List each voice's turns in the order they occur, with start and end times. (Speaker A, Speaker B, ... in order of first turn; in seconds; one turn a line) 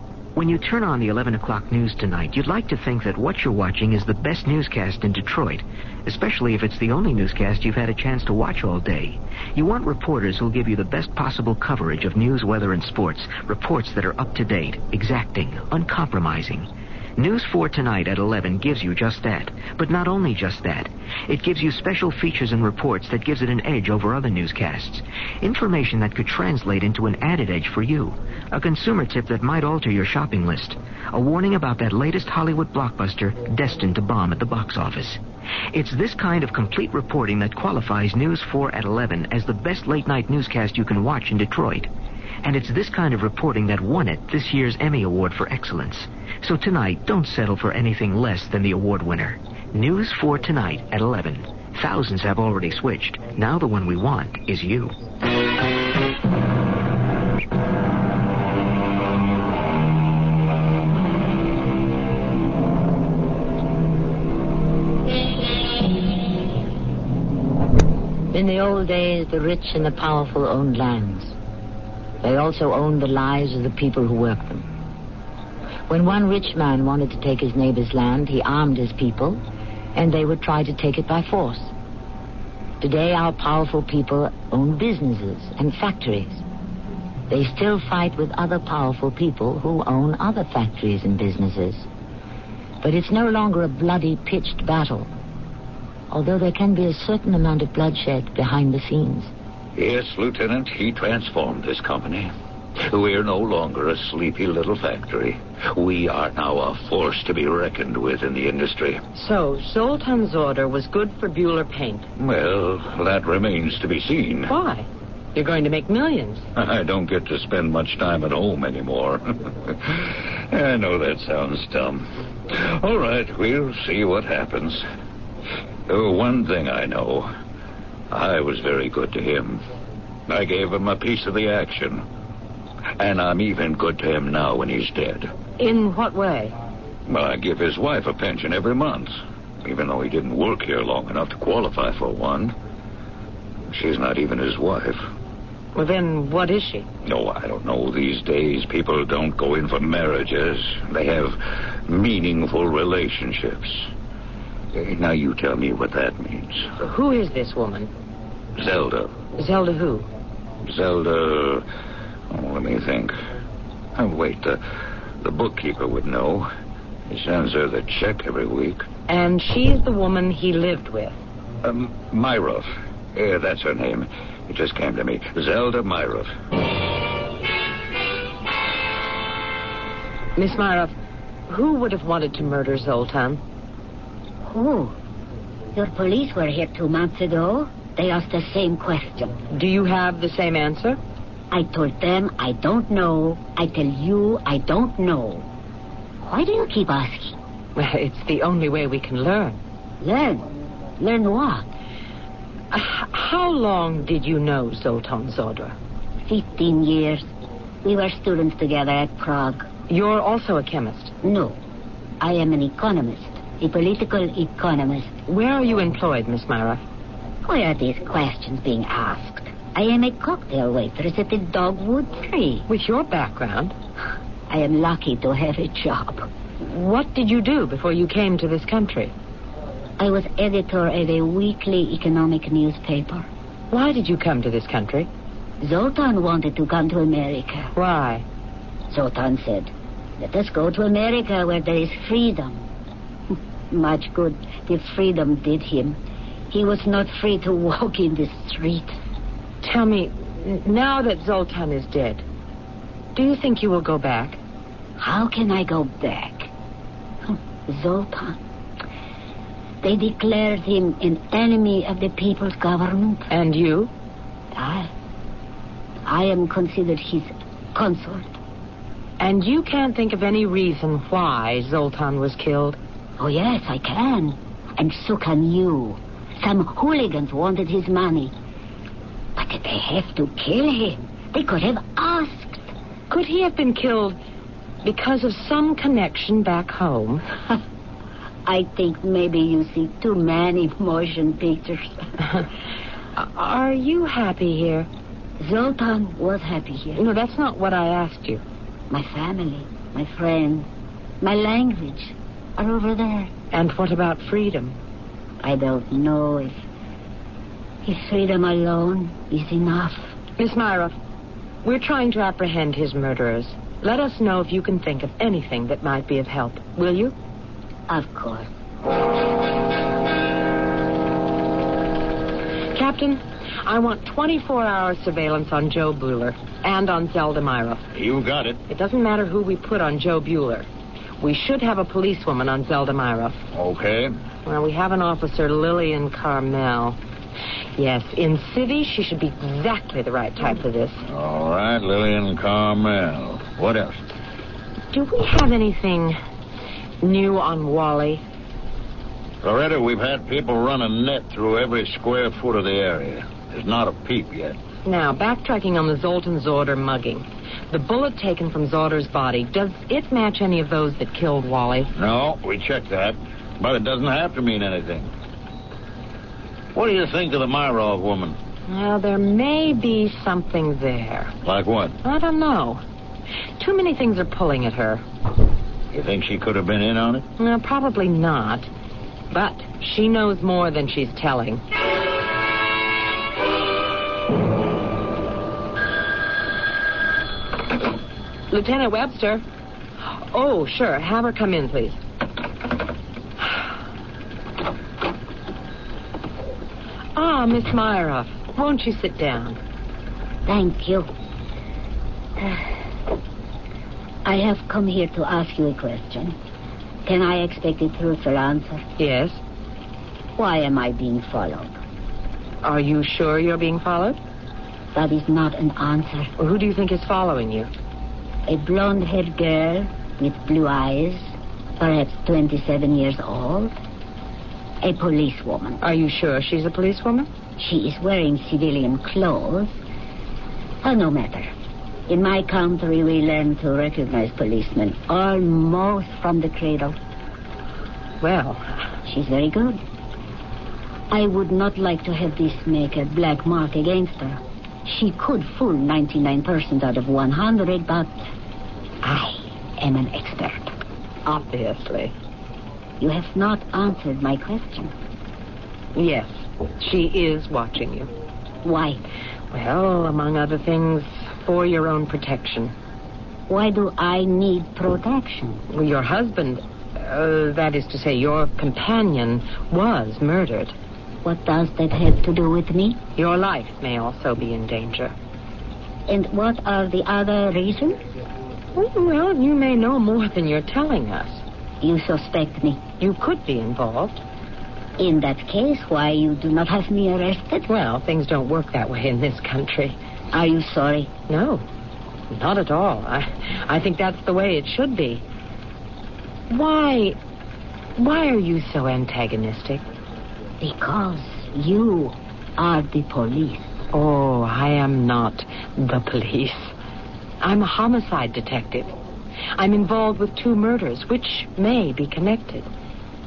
Speaker A: 0.3-35.2
Speaker A: 35.7-41.9
Speaker A: 42.4-54.9
Speaker B: 68.3-71.3
Speaker B: 72.2-74.7
Speaker B: 75.9-79.4
Speaker B: 79.9-81.7
Speaker B: 82.8-86.4
Speaker B: 87.3-91.9
Speaker B: 92.8-95.1
Speaker B: 96.1-99.3
Speaker C: 99.7-109.0
Speaker D: 109.1-112.1
Speaker C: 112.2-114.5
Speaker D: 114.5-116.5
Speaker C: 116.5-124.8
Speaker C: 125.9-127.3
Speaker C: 128.1-129.6
Speaker C: 130.3-132.0
Speaker C: 133.0-135.3
Speaker D: 135.6-136.5
Speaker C: 137.1-142.5
Speaker C: 143.7-145.1
Speaker D: 145.7-146.9
Speaker C: 147.0-153.9
Speaker C: 154.7-156.7
Speaker D: 156.8-157.9
Speaker C: 158.6-159.2
Speaker D: 159.4-160.1
Speaker C: 160.6-161.6
Speaker C: 162.3-163.1
Speaker C: 163.9-164.6
Speaker C: 165.2-166.5
Speaker C: 167.1-168.8
Speaker D: 169.1-171.2
Speaker C: 171.6-176.3
Speaker D: 180.4-180.9
Speaker D: 181.5-183.4
Speaker E: 184.4-184.9
Speaker E: 185.7-189.3
Speaker D: 189.5-191.0
Speaker E: 191.5-195.4
Speaker E: 196.2-197.4
Speaker D: 197.8-199.6
Speaker E: 200.0-201.7
Speaker D: 202.7-205.7
Speaker E: 206.2-207.3
Speaker E: 207.8-209.7
Speaker D: 209.9-211.1
Speaker E: 211.2-211.6
Speaker E: 212.2-215.1
Speaker D: 215.3-216.8
Speaker E: 217.4-222.6
Speaker D: 222.7-223.7
Speaker E: 224.5-226.3
Speaker D: 226.6-229.1
Speaker E: 230.0-233.3
Speaker D: 233.7-235.1
Speaker E: 235.6-237.7
Speaker D: 237.7-238.2
Speaker E: 238.9-242.6
Speaker E: 243.7-246.0
Speaker E: 246.5-249.0
Speaker D: 249.6-252.2
Speaker D: 253.1-254.4
Speaker E: 255.0-256.5
Speaker E: 257.2-258.4
Speaker E: 259.8-263.3
Speaker D: 263.3-263.9
Speaker E: 264.5-264.9
Speaker E: 266.0-268.3
Speaker D: 269.2-272.8
Speaker E: 273.2-278.3
Speaker E: 279.4-282.7
Speaker D: 283.1-284.2
Speaker D: 284.8-287.2
Speaker E: 288.4-292.0
Speaker D: 293.1-294.9
Speaker E: 295.4-297.0
Speaker D: 296.9-298.4
Speaker E: 298.9-300.7
Speaker E: 301.2-303.3
Speaker D: 303.5-304.8
Speaker E: 305.4-306.6
Speaker E: 307.8-310.1
Speaker D: 310.4-310.9
Speaker D: 311.6-317.1
Speaker E: 317.9-318.5
Speaker D: 322.7-327.8
Speaker F: 327.9-328.6
Speaker D: 328.7-330.7
Speaker D: 331.2-333.4
Speaker F: 333.5-334.1
Speaker D: 334.4-337.0
Speaker D: 337.8-341.0
Speaker F: 341.1-344.0
Speaker D: 344.9-346.2
Speaker D: 347.0-348.2
Speaker F: 349.4-354.6
Speaker D: 354.8-361.9
Speaker F: 361.9-365.1
Speaker F: 366.7-368.4
Speaker D: 368.7-371.3
Speaker F: 371.4-371.9
Speaker D: 372.0-372.8
Speaker D: 373.6-375.0
Speaker F: 375.9-377.2
Speaker D: 377.4-378.7
Speaker D: 379.3-381.6
Speaker D: 388.5-389.4
Speaker D: 390.3-392.0
Speaker D: 397.1-399.6
Speaker E: 400.4-401.1
Speaker E: 404.2-406.4
Speaker E: 407.1-408.8
Speaker D: 409.0-409.4
Speaker E: 410.4-411.8
Speaker D: 412.6-414.2
Speaker E: 414.9-416.3
Speaker D: 416.4-417.7
Speaker E: 418.5-423.7
Speaker E: 424.8-425.8
Speaker D: 425.8-427.3
Speaker E: 427.6-429.7
Speaker E: 430.8-431.5
Speaker E: 432.1-437.0
Speaker D: 438.2-438.7
Speaker E: 439.0-439.8
Speaker E: 441.1-448.2
Speaker D: 449.0-449.4
Speaker E: 449.8-450.7
Speaker D: 451.2-452.1
Speaker E: 453.0-454.9
Speaker D: 455.9-458.1
Speaker E: 458.6-459.0
Speaker D: 459.5-462.7
Speaker E: 463.5-465.6
Speaker D: 465.7-470.7
Speaker E: 471.2-473.0
Speaker D: 473.2-475.1
Speaker E: 476.1-478.0
Speaker D: 478.7-481.4
Speaker E: 481.8-482.8
Speaker D: 483.0-484.2
Speaker E: 485.0-487.6
Speaker D: 487.7-489.9
Speaker E: 490.3-491.1
Speaker D: 491.3-491.6
Speaker D: 492.3-495.2
Speaker D: 496.5-497.2
Speaker D: 498.0-499.8
Speaker E: 500.6-503.7
Speaker D: 503.9-506.7
Speaker D: 507.4-508.9
Speaker D: 509.6-512.7